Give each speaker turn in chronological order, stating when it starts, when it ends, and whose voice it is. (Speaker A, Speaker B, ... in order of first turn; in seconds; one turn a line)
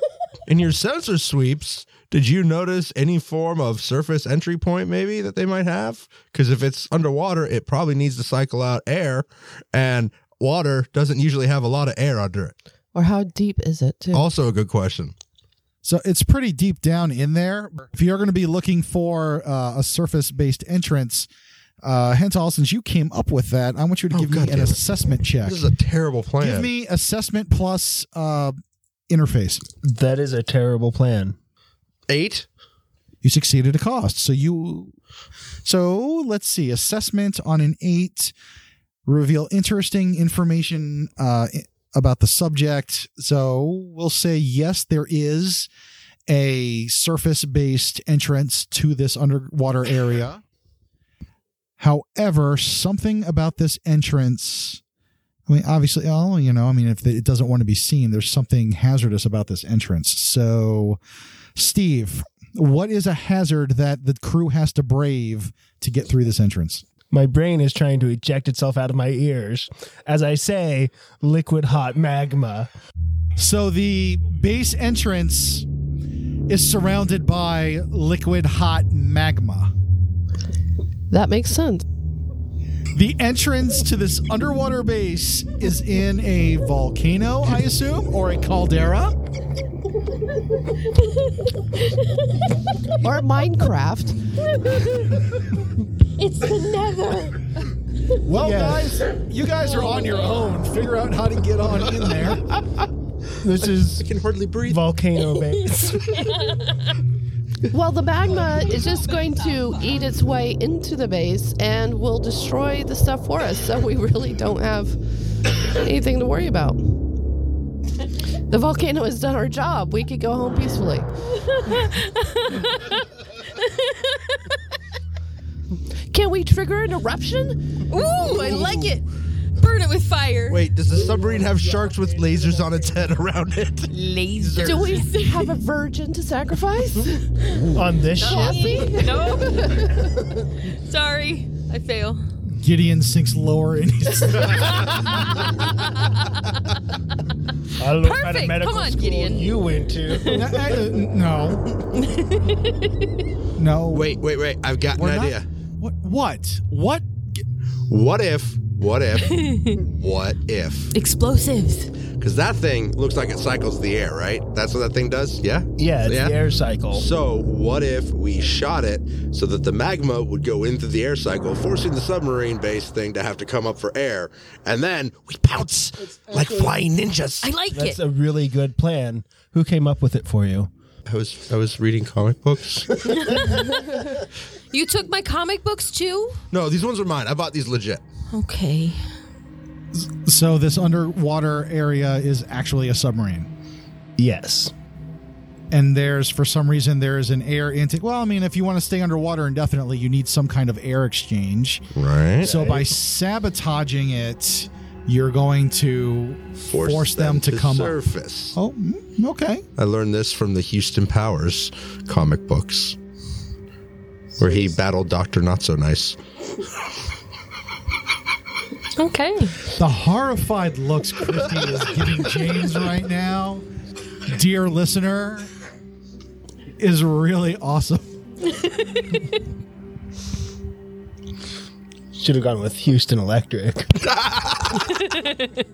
Speaker A: 0.5-12.5
Speaker B: 12.9-14.3
Speaker A: 14.1-15.1
Speaker C: 15.8-21.3
Speaker C: 21.8-25.6
Speaker A: 24.1-24.8
Speaker A: 25.4-26.7
Speaker C: 26.4-28.6
Speaker C: 29.1-29.6
Speaker D: 29.8-31.4
Speaker A: 32.1-32.5
Speaker C: 33.2-34.9
Speaker C: 35.6-38.3
Speaker C: 39.0-45.7
Speaker C: 46.3-50.4
Speaker C: 51.8-54.8
Speaker C: 55.5-61.0
Speaker C: 61.5-66.8
Speaker D: 67.1-72.7
Speaker C: 73.3-75.7
Speaker C: 76.5-79.7
Speaker B: 81.1-81.8
Speaker C: 82.9-89.1
Speaker E: 91.0-92.0
Speaker B: 93.0-94.2
Speaker E: 94.5-95.3
Speaker E: 96.2-97.5
Speaker C: 98.2-102.5
Speaker D: 98.5-98.7
Speaker D: 103.4-104.1
Speaker A: 104.0-104.8
Speaker D: 104.6-106.2
Speaker E: 106.2-106.7
Speaker B: 107.7-115.0
Speaker B: 115.7-116.8
Speaker B: 118.5-121.1
Speaker E: 121.5-124.4
Speaker B: 126.1-127.8
Speaker E: 127.9-129.1
Speaker E: 129.6-130.6
Speaker A: 130.5-135.0
Speaker E: 133.9-135.5
Speaker B: 134.6-137.3
Speaker D: 137.7-138.8
Speaker B: 138.2-140.1
Speaker E: 138.2-142.2
Speaker C: 142.6-145.2
Speaker E: 146.0-146.3
Speaker D: 147.8-150.9
Speaker E: 148.0-150.4
Speaker C: 150.2-151.6
Speaker E: 151.9-153.1
Speaker C: 153.6-154.2
Speaker A: 153.9-155.4
Speaker C: 154.9-157.1
Speaker A: 157.9-160.9
Speaker E: 159.2-159.8
Speaker E: 160.9-161.9
Speaker A: 162.2-166.4
Speaker D: 165.8-167.1
Speaker A: 166.9-177.5
Speaker E: 177.4-178.0
Speaker D: 177.7-180.7
Speaker A: 181.1-183.4
Speaker E: 183.2-184.2
Speaker E: 184.7-186.4
Speaker A: 186.5-188.0
Speaker E: 188.3-189.0
Speaker C: 189.9-193.5
Speaker D: 194.2-194.7
Speaker C: 195.7-201.9
Speaker A: 201.9-202.5
Speaker C: 202.4-208.0
Speaker D: 202.4-202.9
Speaker A: 206.6-208.6
Speaker C: 208.5-209.6
Speaker A: 209.8-213.0
Speaker A: 214.4-216.2
Speaker E: 218.9-219.6
Speaker C: 219.7-223.6
Speaker C: 224.3-225.5
Speaker C: 226.8-228.1
Speaker E: 228.9-229.2
Speaker D: 232.1-234.0
Speaker A: 234.1-234.7